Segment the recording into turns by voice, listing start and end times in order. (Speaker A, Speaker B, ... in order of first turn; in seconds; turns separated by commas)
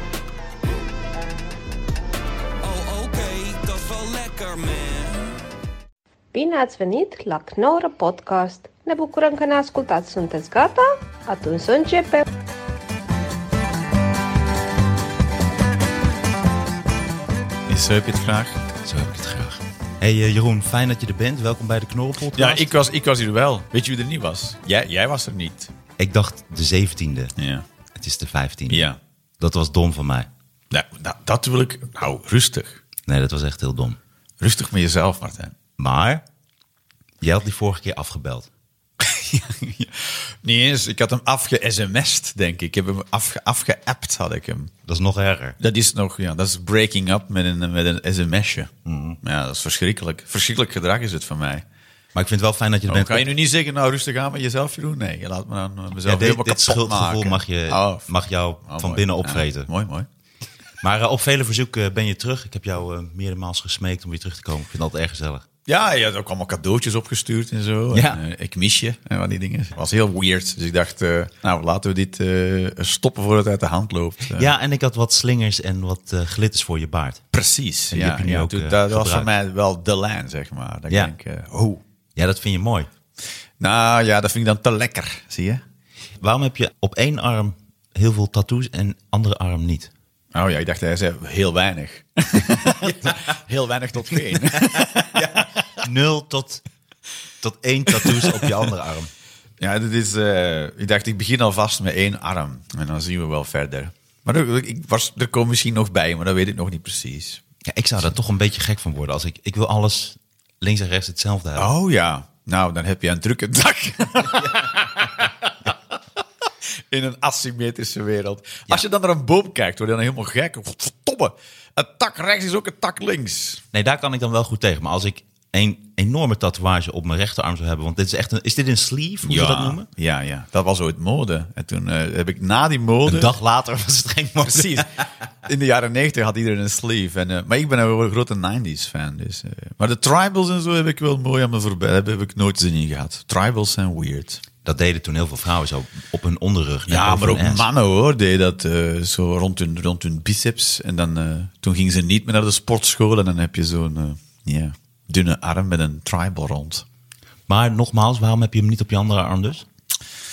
Speaker A: 2.6-5.4, Speaker B: 6.3-12.2, Speaker C: 17.7-18.6, Speaker D: 18.8-22.7, Speaker C: 22.4-25.7, Speaker D: 26.0-27.3, Speaker C: 27.4-27.6, Speaker D: 27.9-28.9, Speaker C: 28.7-29.0, Speaker D: 29.4-30.3, Speaker C: 30.7-32.8, Speaker D: 33.0-34.0, Speaker C: 34.4-35.5, Speaker D: 35.8-36.2, Speaker D: 37.2-38.5, Speaker C: 39.0-44.7, Speaker D: 44.9-45.6, Speaker C: 45.6-51.6, Speaker D: 48.9-49.2, Speaker D: 52.1-53.3, Speaker C: 52.9-58.1, Speaker D: 56.0-59.7, Speaker C: 58.6-60.1, Speaker D: 60.8-65.5, Speaker C: 65.7-74.5, Speaker D: 67.9-68.2, Speaker D: 74.3-77.2, Speaker C: 77.3-81.8, Speaker D: 77.9-79.3, Speaker D: 82.2-82.9, Speaker C: 83.6-85.6, Speaker D: 86.2-89.9, Speaker C: 90.3-95.8, Speaker D: 92.4-93.2, Speaker D: 94.4-96.6, Speaker D: 97.4-99.1, Speaker C: 97.9-98.6, Speaker C: 99.6-107.4, Speaker D: 107.6-111.7, Speaker C: 111.5-115.7, Speaker D: 114.3-114.7, Speaker C: 116.9-123.6, Speaker D: 123.7-129.9, Speaker C: 129.2-133.3, Speaker D: 133.1-134.8, Speaker C: 134.4-144.4, Speaker D: 144.6-147.7, Speaker C: 146.9-156.8, Speaker D: 157.5-159.6